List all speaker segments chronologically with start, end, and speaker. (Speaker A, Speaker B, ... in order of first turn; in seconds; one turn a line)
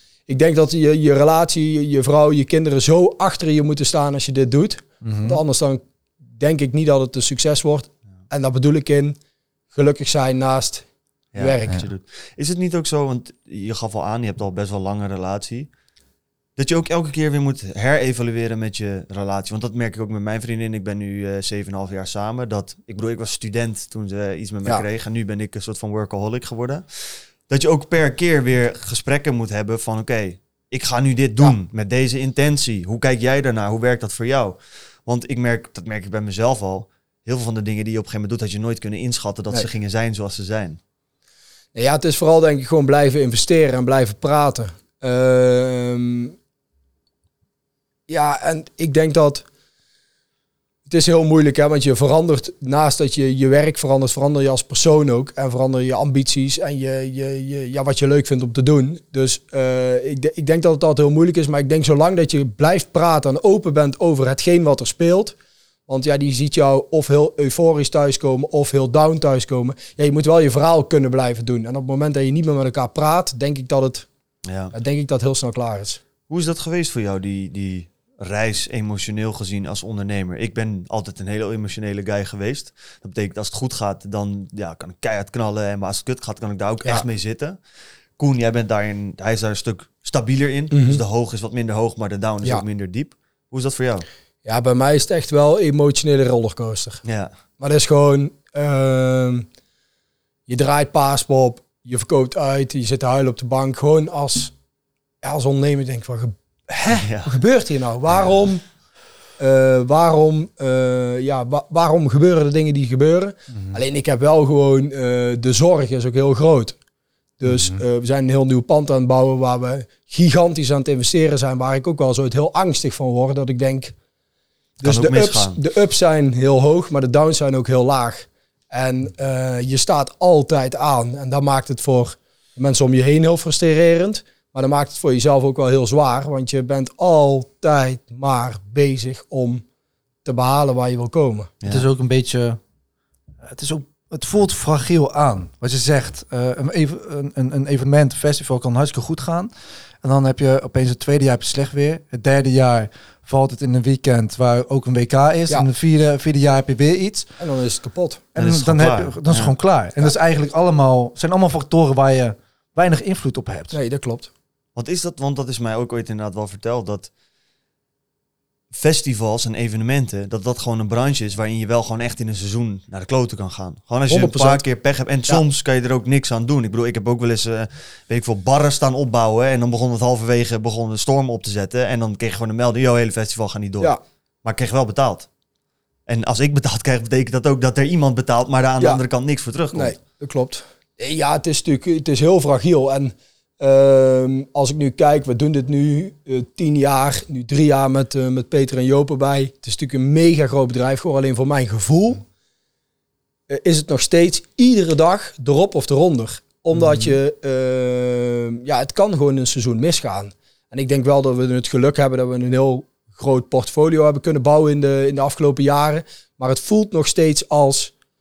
Speaker A: 0.3-5.8
Speaker B: 5.0-5.4
Speaker A: 6.4-9.2
Speaker A: 9.7-11.8
Speaker C: 11.3-15.7
Speaker C: 16.6-40.8
Speaker A: 41.8-46.4
Speaker A: 48.1-49.5
Speaker A: 50.9-65.4
Speaker A: 65.9-74.1
Speaker C: 74.5-74.7
Speaker A: 74.7-76.0
Speaker C: 76.3-87.6
Speaker C: 88.2-94.1
Speaker A: 90.7-91.0
Speaker A: 94.5-97.0
Speaker C: 97.0-97.3
Speaker A: 97.6-99.5
Speaker A: 100.5-104.5
Speaker A: 105.2-108.6
Speaker C: 107.0-107.4
Speaker A: 109.4-116.8
Speaker A: 117.4-124.0
Speaker B: 117.5-117.8
Speaker A: 124.8-139.6
Speaker C: 124.8-125.6
Speaker A: 140.2-141.5
Speaker B: 141.7-142.6
Speaker B: 143.4-149.5
Speaker B: 150.0-157.3
Speaker A: 157.4-158.2
Speaker B: 158.3-163.8
Speaker C: 158.4-159.5
Speaker A: 163.7-164.3
Speaker C: 164.8-167.1
Speaker C: 168.7-185.3
Speaker A: 174.1-174.6
Speaker C: 186.1-189.9
Speaker A: 189.7-202.2
Speaker A: 203.5-217.9
Speaker B: 206.7-207.2